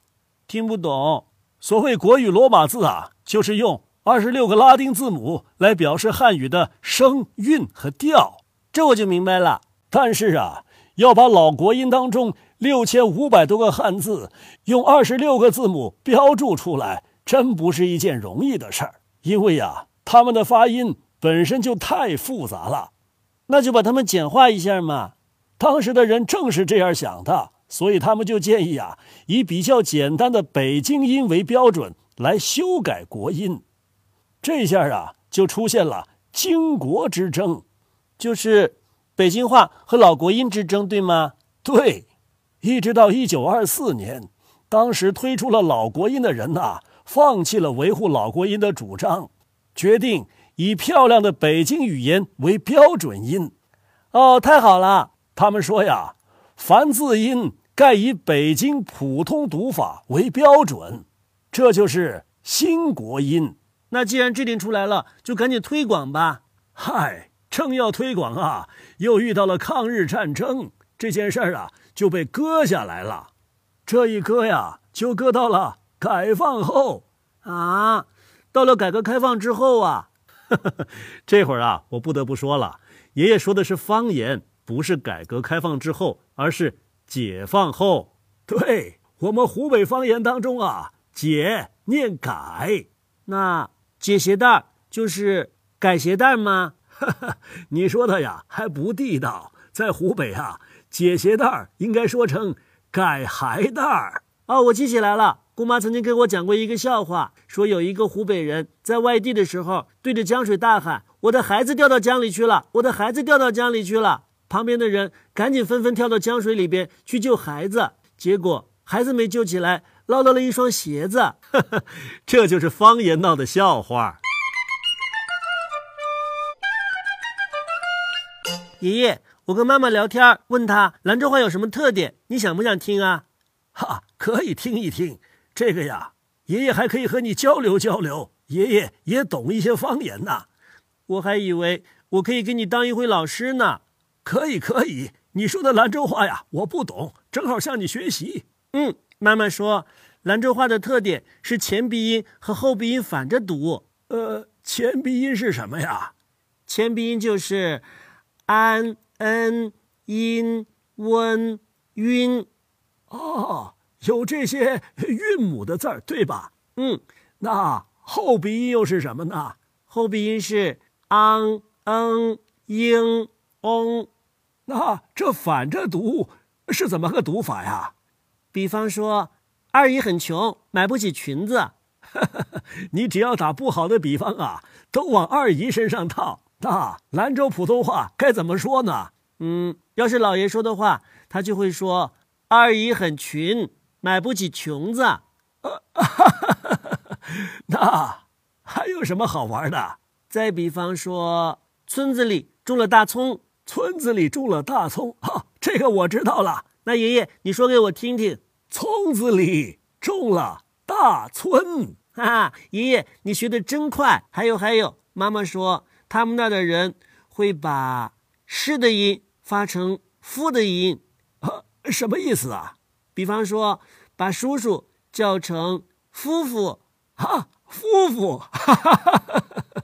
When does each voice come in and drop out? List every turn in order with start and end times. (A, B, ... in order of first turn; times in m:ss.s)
0:00.5-0:22.9 A
0:23.5-0:33.6 A
0:34.4-0:37.6 A
0:38.2-0:42.1 A
0:42.6-0:53.5 A
0:54.1-1:13.3 A
1:13.8-1:20.1 A
1:20.6-2:04.2 A
2:08.8-2:20.5 A
2:21.1-2:36.1 A
2:36.7-2:37.8 A
2:38.5-2:42.5 A
2:43.1-2:54.1 A
2:54.7-2:57.9 A
2:58.5-3:49.4 A